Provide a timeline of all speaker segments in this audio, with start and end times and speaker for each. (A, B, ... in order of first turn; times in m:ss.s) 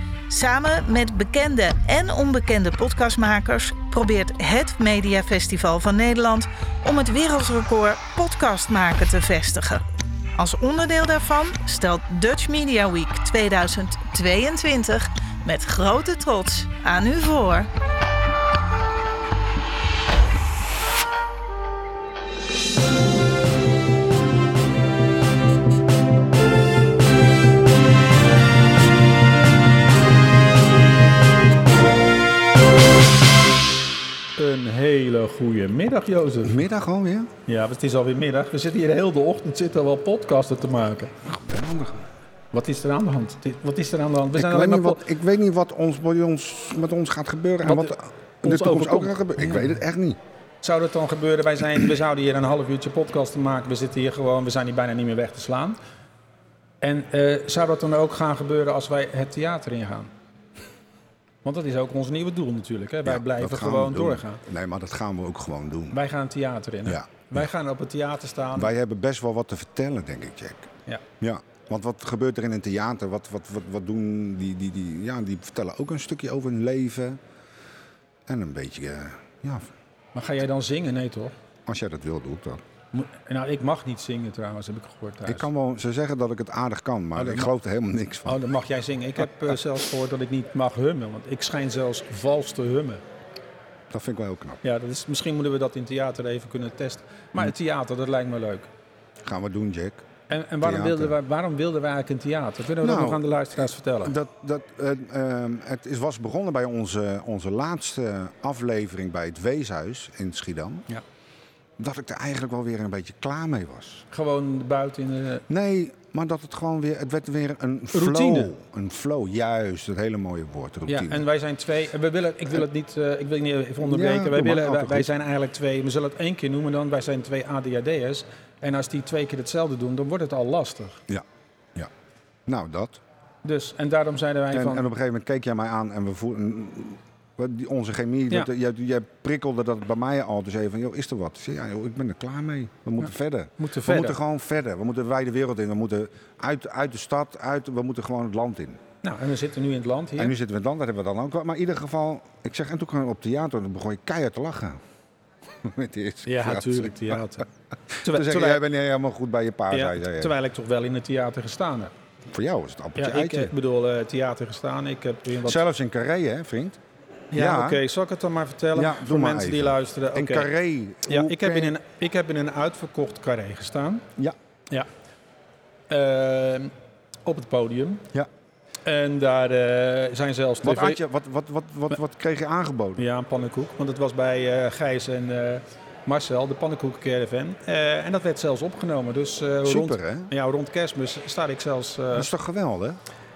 0:00.3-0:09.8 A
0:10.4-0:17.7 A
0:34.4-0:36.6 B
0:36.4-0:37.3 C
0:37.5-0:41.1 B
0:41.2-0:42.0 C
0:42.5-0:45.0 B
0:44.3-0:50.2 C
0:47.6-0:49.7 B
0:50.6-0:55.8 B
0:56.8-1:00.1 B
1:01.4-1:04.4 B
1:03.0-1:06.0 C
1:05.9-1:08.7 B
1:06.8-1:07.4 C
1:08.6-1:10.7 C
1:11.2-1:17.2 C
1:18.3-1:19.7 C
1:20.1-1:21.3 B
1:21.7-1:22.6 C
1:22.9-1:25.5 B
1:25.2-1:28.4 C
1:27.2-1:27.5 B
1:28.2-1:33.0 B
1:33.9-1:34.6 C
1:34.6-1:38.7 B
1:39.2-1:40.0 C
1:40.3-1:44.2 B
1:40.6-1:41.2 C
1:42.8-1:50.9 C
1:51.8-1:54.0 C
1:54.1-1:55.4 B
1:55.5-2:01.2 C
1:57.9-1:58.5 B
2:00.9-2:11.0 B
2:03.8-2:05.1 C
2:12.5-2:13.0 C
2:13.4-2:14.8 B
2:14.5-2:28.8 C
2:23.6-2:24.2 B
2:29.0-2:30.4 B
2:30.2-2:34.8 C
2:35.6-2:37.3 C
2:36.2-2:37.5 B
2:38.0-2:40.3 C
2:38.0-2:38.6 B
2:39.7-2:41.9 B
2:42.3-2:43.5 C
2:43.0-2:45.6 B
2:45.4-2:46.8 C
2:47.3-2:50.5 B
2:47.3-2:47.8 C
2:48.7-2:51.7 C
2:51.1-2:54.1 B
2:55.9-2:56.7 B
2:57.2-2:58.1 B
2:58.8-3:01.0 B
3:00.6-3:03.0 C
3:03.0-3:12.3 B
3:09.6-3:10.3 C
3:12.1-3:13.0 C